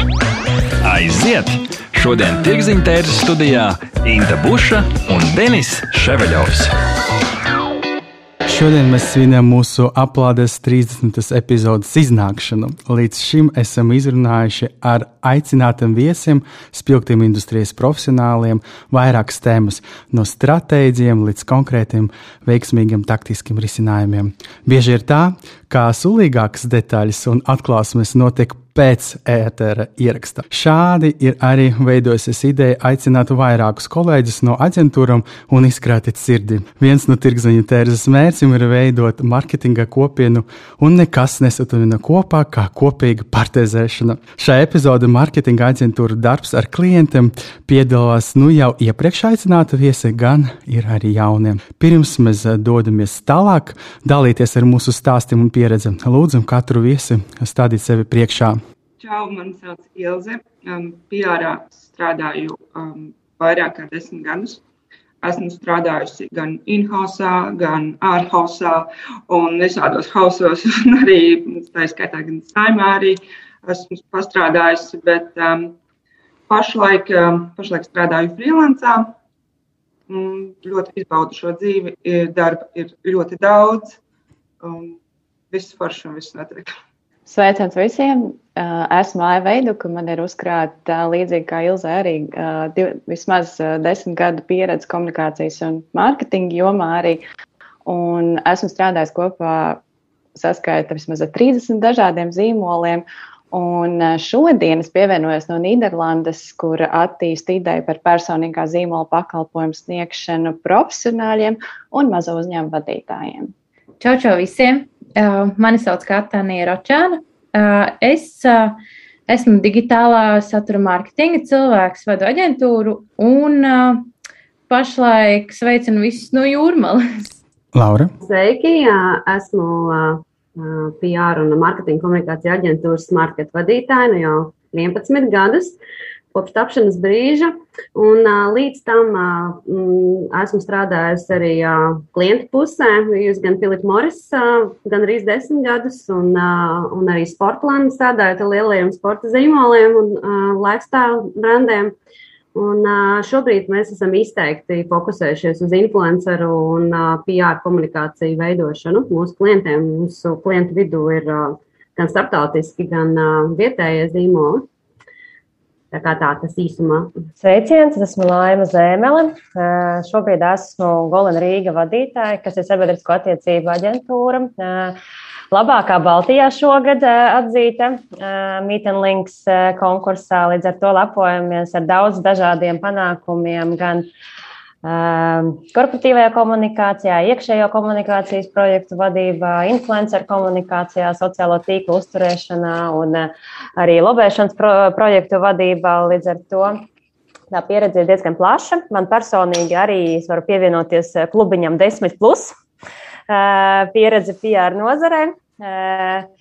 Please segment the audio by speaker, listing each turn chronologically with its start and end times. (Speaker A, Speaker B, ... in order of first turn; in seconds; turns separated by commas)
Speaker A: 0.8-6.7, Speaker B: 8.4-58.6, Speaker C: 59.0-64.6, Speaker C: 65.2-75.7, Speaker C: 76.5-79.1, Speaker C: 80.1-84.0, Speaker C: 84.6-85.0, Speaker C: 85.5-86.7, Speaker D: 87.3-97.2, Speaker D: 97.8-99.8, Speaker D: 100.3-113.5, Speaker E: 114.0-124.1, Speaker E: 124.7-127.4, Speaker B: 127.7-128.1, Speaker F: 128.2-135.8, Speaker F: 136.3-151.9, Speaker F: 152.5-164.7, Speaker F: 165.9-167.1, Speaker G: 167.4-175.0, Speaker G: 175.5-184.1, Speaker G: 184.8-196.8, Speaker G: 197.5-202.5, Speaker G: 203.3-206.3